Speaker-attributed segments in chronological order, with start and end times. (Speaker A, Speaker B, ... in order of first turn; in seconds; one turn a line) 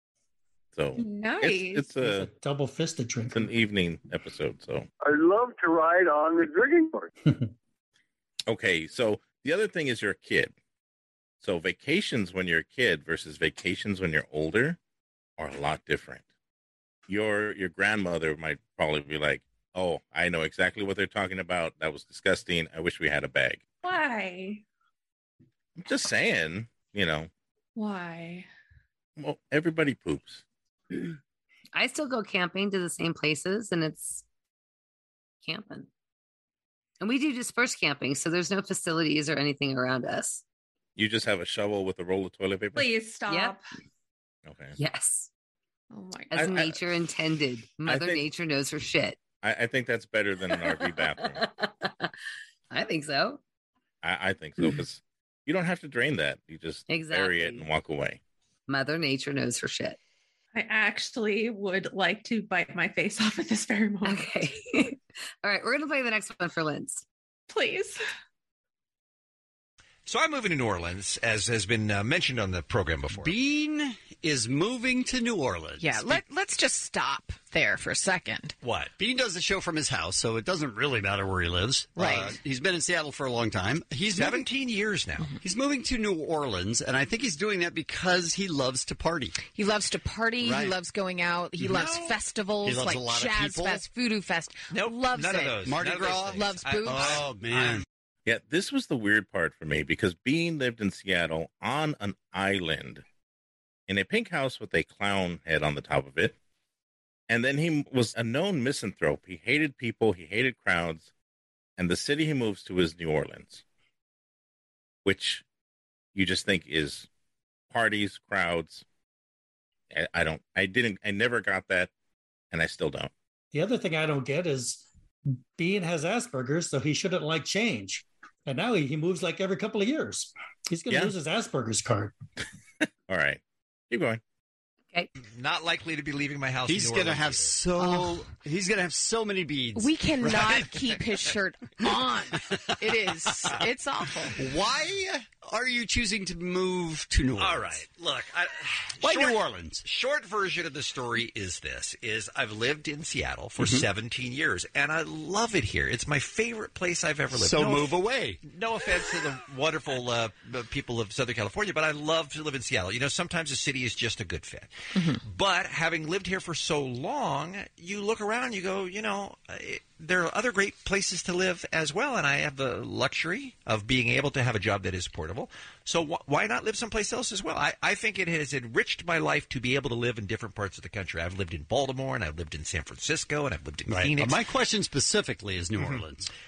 Speaker A: 0.7-2.3
Speaker B: 1.0-1.9
Speaker C: 2.0-3.5
Speaker A: 3.3-4.9
Speaker D: 5.0-7.1
Speaker A: 8.5-10.5
Speaker A: 11.4-14.8
Speaker A: 15.4-16.2
Speaker A: 17.1-23.6
Speaker B: 23.8-24.6
Speaker A: 25.8-27.3
Speaker B: 27.8-28.4
Speaker A: 29.2-30.4
Speaker E: 31.7-34.2
Speaker E: 35.4-35.9
Speaker E: 37.0-40.4
Speaker A: 41.0-42.9
Speaker B: 42.7-43.6
Speaker E: 43.3-43.5
Speaker A: 44.5-44.7
Speaker E: 44.8-45.3
Speaker B: 45.9-46.7
Speaker E: 46.3-49.2
Speaker A: 46.3-46.7
Speaker A: 47.8-48.3
Speaker A: 49.4-51.5
Speaker E: 50.6-52.1
Speaker E: 52.7-53.4
Speaker A: 54.0-58.2
Speaker E: 56.9-57.7
Speaker E: 58.7-60.0
Speaker B: 60.5-64.3
Speaker E: 64.0-67.0
Speaker B: 67.5-68.0
Speaker F: 70.0-73.3
Speaker G: 73.1-76.2
Speaker H: 75.8-78.5
Speaker F: 78.6-78.9
Speaker G: 79.0-84.5
Speaker H: 82.0-82.4
Speaker F: 84.1-85.3
Speaker G: 85.4-89.3
Speaker H: 89.5-95.7
Speaker G: 90.4-90.8
Speaker F: 91.6-92.1
Speaker G: 92.6-93.8
Speaker F: 94.7-97.8
Speaker G: 95.6-97.8
Speaker H: 96.3-97.2
Speaker A: 98.2-103.0
Speaker A: 103.9-106.3
Speaker A: 107.3-111.1
Speaker A: 111.8-113.6
Speaker A: 115.0-115.4
Speaker A: 116.1-117.1
Speaker A: 117.7-118.8
Speaker A: 119.9-121.9
Speaker A: 122.5-123.1
Speaker C: 123.5-132.1
Speaker A: 133.1-134.2
Speaker F: 135.2-137.6
Speaker G: 136.7-140.8
Speaker H: 139.7-144.4
Speaker G: 143.3-143.6
Speaker G: 144.3-147.8
Speaker F: 147.3-184.4
Speaker G: 149.0-149.8
Speaker G: 153.6-153.8
Speaker G: 157.3-158.4
Speaker H: 164.9-165.2
Speaker G: 183.9-186.3